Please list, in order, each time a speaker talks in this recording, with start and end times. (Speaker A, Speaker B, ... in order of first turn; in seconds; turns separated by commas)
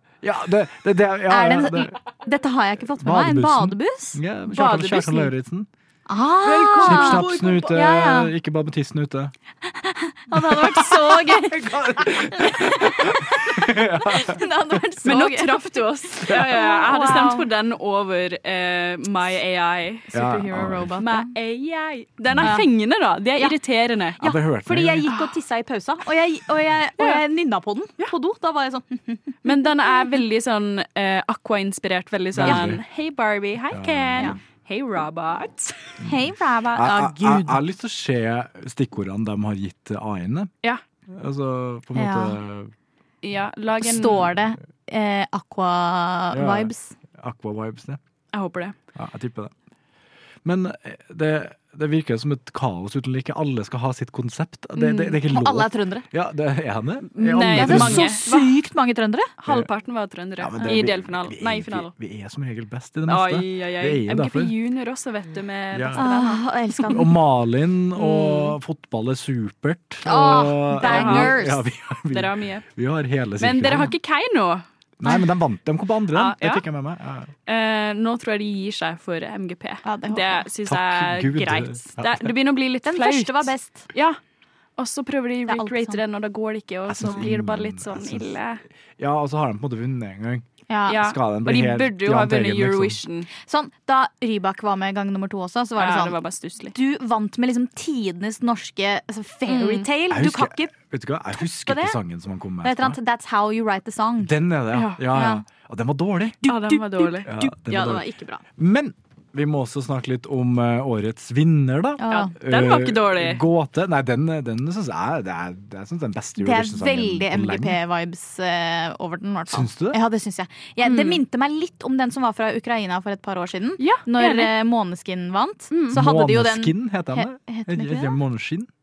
Speaker A: 0.2-1.9, Speaker B: 1.3-4.2, Speaker A: 3.0-5.7, Speaker C: 4.5-5.3, Speaker B: 6.1-8.3, Speaker C: 6.4-7.8, Speaker A: 6.8-9.3, Speaker B: 10.1-17.5, Speaker A: 10.4-14.4, Speaker C: 15.0-24.2, Speaker A: 16.3-17.2, Speaker A: 20.1-20.9, Speaker B: 20.5-21.3, Speaker A: 22.3-22.6, Speaker B: 22.4-22.7, Speaker A: 24.2-25.1, Speaker B: 24.2-29.3, Speaker C: 25.1-25.3, Speaker C: 29.4-35.9, Speaker A: 32.3-32.8, Speaker B: 32.4-32.7, Speaker A: 33.7-34.3, Speaker B: 36.0-37.6, Speaker A: 36.7-40.5, Speaker A: 41.1-42.7, Speaker B: 42.0-42.4, Speaker C: 43.2-44.3, Speaker B: 43.8-46.9, Speaker A: 46.3-48.0, Speaker C: 48.3-48.8, Speaker A: 48.9-49.5, Speaker A: 50.4-58.1, Speaker C: 54.8-55.2, Speaker B: 55.2-56.1, Speaker C: 57.1-58.5, Speaker B: 57.5-59.3, Speaker C: 59.4-61.9, Speaker A: 60.4-64.5, Speaker B: 60.6-60.8, Speaker C: 63.1-67.0, Speaker A: 65.7-66.0, Speaker B: 66.0-67.1, Speaker A: 66.8-73.9, Speaker C: 68.0-68.5, Speaker B: 70.0-71.6, Speaker C: 70.8-71.4, Speaker C: 72.1-72.7, Speaker C: 73.4-74.6, Speaker A: 75.0-77.3, Speaker C: 76.1-76.6, Speaker C: 77.5-84.2, Speaker B: 79.8-80.4, Speaker A: 80.6-82.3, Speaker B: 82.8-83.9, Speaker C: 84.8-88.6, Speaker B: 85.5-86.0, Speaker A: 86.8-88.3, Speaker A: 89.0-93.0, Speaker B: 90.7-91.0, Speaker C: 90.9-93.3, Speaker B: 93.4-96.2, Speaker C: 95.8-96.7, Speaker B: 96.7-100.7, Speaker C: 99.5-99.9, Speaker A: 100.1-103.0, Speaker B: 101.4-102.0, Speaker B: 102.6-104.3, Speaker A: 104.2-106.4, Speaker C: 104.7-105.0, Speaker B: 105.1-105.4, Speaker B: 106.4-108.4, Speaker C: 106.5-107.3, Speaker A: 107.2-108.0, Speaker A: 108.6-117.8, Speaker B: 112.0-112.3, Speaker C: 112.1-113.4, Speaker B: 116.4-128.2, Speaker A: 119.5-120.0, Speaker C: 120.8-121.2, Speaker C: 123.8-124.5, Speaker C: 125.7-126.0, Speaker A: 125.9-128.7